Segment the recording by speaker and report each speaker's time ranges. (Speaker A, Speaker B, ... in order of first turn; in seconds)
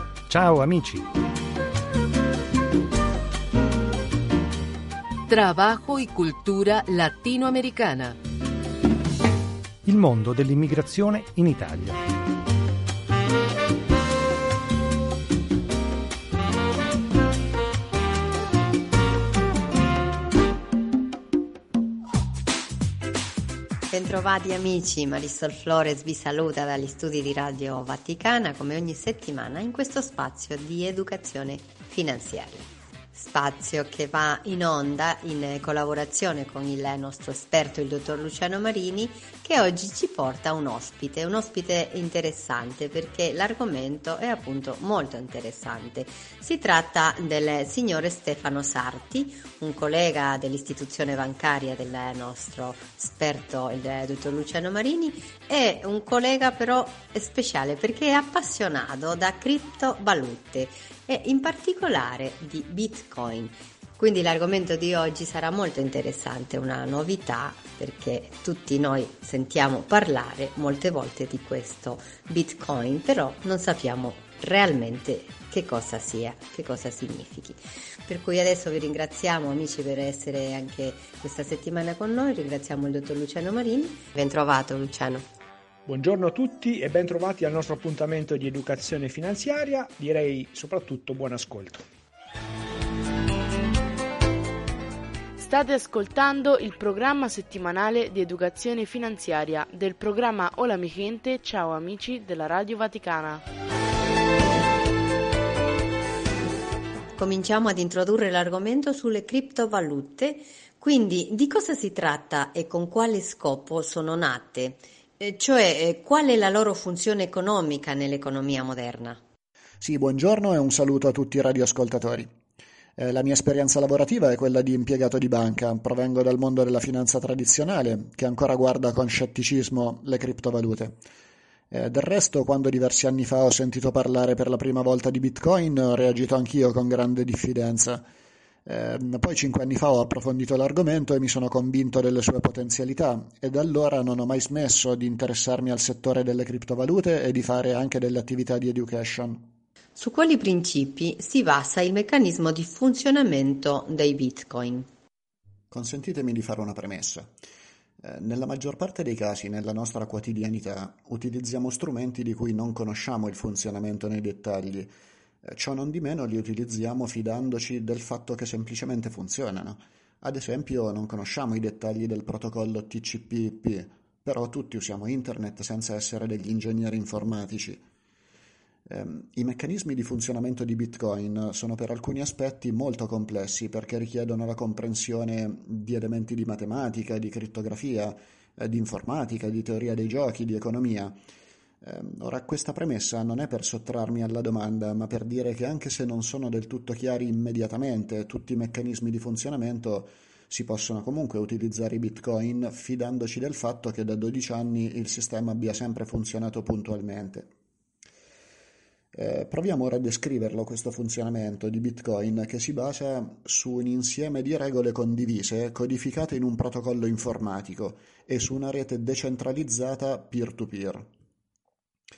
Speaker A: 0.3-1.1, 9.8-12.0
Speaker B: 5.3-8.2
Speaker C: 23.9-85.2, 107.2-119.2, 149.9-154.9
Speaker D: 85.8-91.8
Speaker E: 95.4-103.4
Speaker F: 119.8-122.3, 123.0-131.0, 131.7-138.0, 138.7-149.5, 155.7-157.3, 158.0-164.9, 165.4-177.8, 178.9-191.2, 191.8-207.5, 209.1-221.1